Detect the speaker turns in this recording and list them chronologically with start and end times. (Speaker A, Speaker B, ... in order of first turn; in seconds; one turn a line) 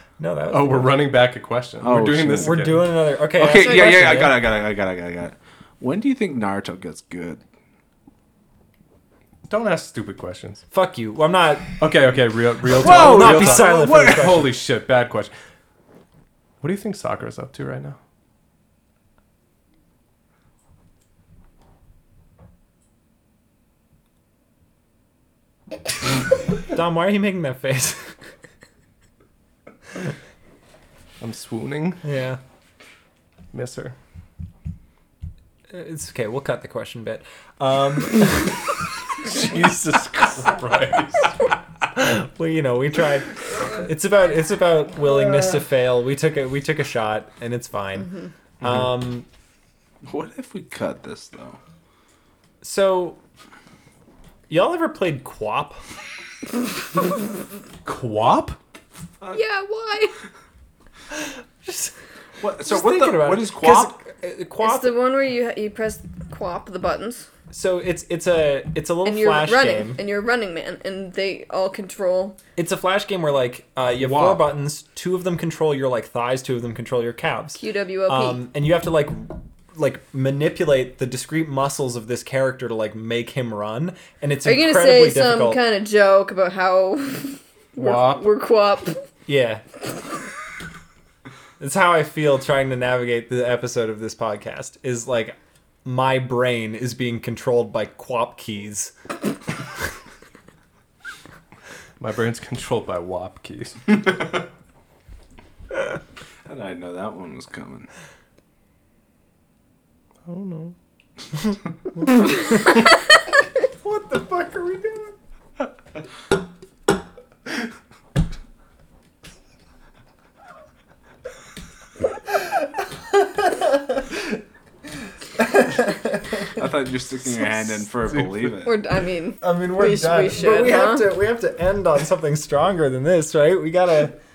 Speaker A: 0.2-1.0
Speaker B: 0.5-2.9
Speaker C: 1.8-2.8
Speaker A: 2.4-4.4
Speaker C: 3.3-7.4
Speaker D: 3.5-4.2
Speaker B: 9.5-10.6
Speaker A: 10.7-11.8
Speaker B: 11.8-15.3
Speaker C: 12.7-14.5
Speaker A: 12.8-14.5
Speaker B: 16.6-18.0
Speaker A: 26.7-28.1
Speaker B: 31.2-32.0
Speaker A: 32.0-32.4
Speaker B: 33.5-34.0
Speaker A: 35.7-38.7
Speaker B: 39.2-41.3
Speaker A: 41.8-49.3
Speaker C: 50.0-51.6
Speaker A: 52.6-53.2
Speaker A: 54.5-55.8
Speaker B: 57.9-58.6
Speaker D: 59.3-60.1
Speaker A: 61.6-61.9
Speaker C: 62.4-63.9
Speaker A: 62.6-65.0
Speaker D: 64.6-67.3
Speaker A: 67.5-70.0
Speaker D: 69.0-72.4
Speaker A: 72.6-85.6
Speaker B: 73.9-74.4
Speaker D: 77.6-78.4
Speaker D: 84.5-89.0
Speaker B: 87.8-88.2
Speaker A: 89.3-89.6
Speaker A: 91.6-98.9
Speaker B: 102.0-104.3
Speaker C: 106.5-107.9
Speaker B: 110.3-110.8
Speaker A: 113.8-115.2
Speaker A: 122.4-124.2
Speaker A: 125.4-126.6
Speaker C: 126.6-128.7
Speaker B: 128.1-128.6
Speaker D: 128.6-131.2
Speaker A: 129.4-134.2